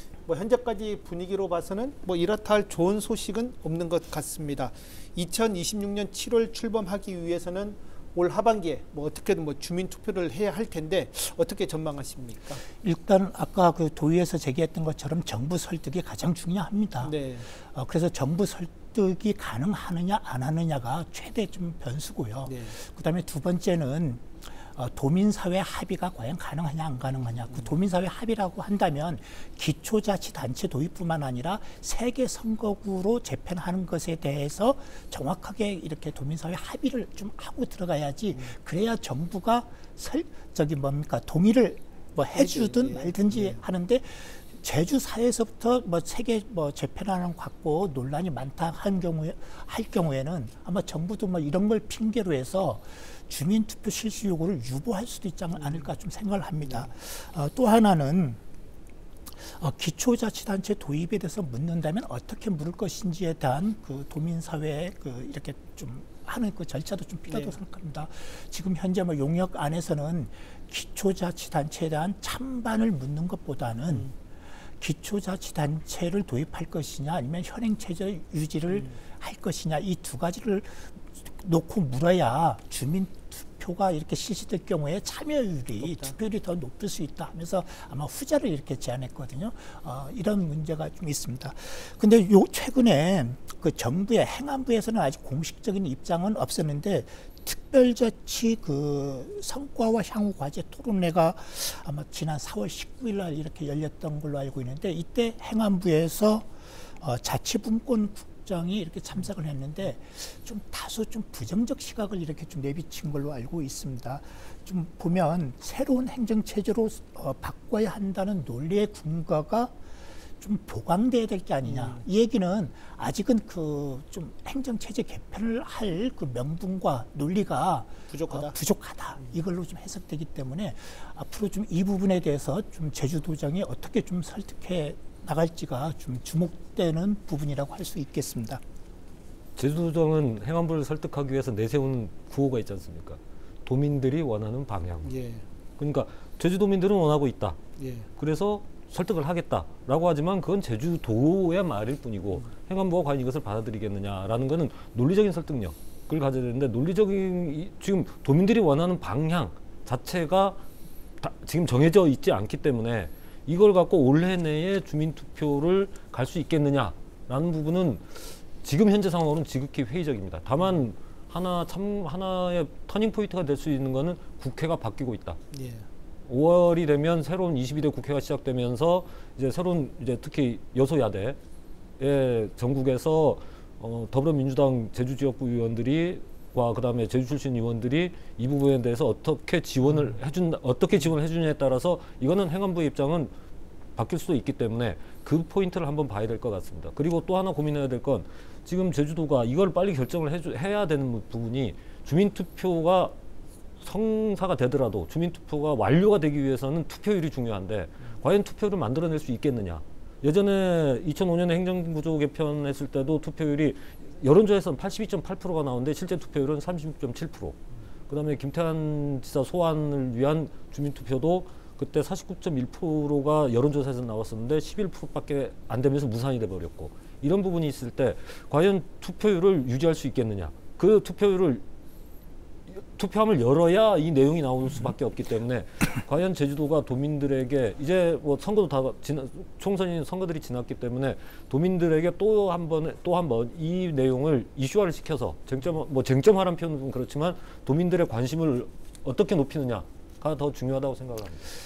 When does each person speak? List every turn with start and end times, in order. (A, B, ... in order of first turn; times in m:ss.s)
0:00.3-0:12.6 A
0:12.7-0:58.4 B
0:17.0-0:17.5 A
0:22.5-0:22.7 A
0:42.3-0:43.6 A
0:55.6-0:55.9 A
0:59.3-1:14.1 B
1:07.3-1:07.6 A
1:14.8-1:59.8 B
1:25.8-1:26.1 A
2:00.4-2:18.6 B
2:01.6-2:02.0 A
2:08.1-2:08.5 A
2:19.6-2:25.1 C
2:25.0-2:25.4 A
2:25.8-2:27.6 C
2:27.8-2:28.1 A
2:28.2-2:40.6 C
2:41.2-2:55.4 C
2:55.5-2:55.9 A
2:56.2-3:01.4 C
3:02.0-3:13.3 C
3:14.0-3:23.2 C
3:23.8-3:37.6 C
3:38.1-3:51.6 C
3:52.7-4:11.4 C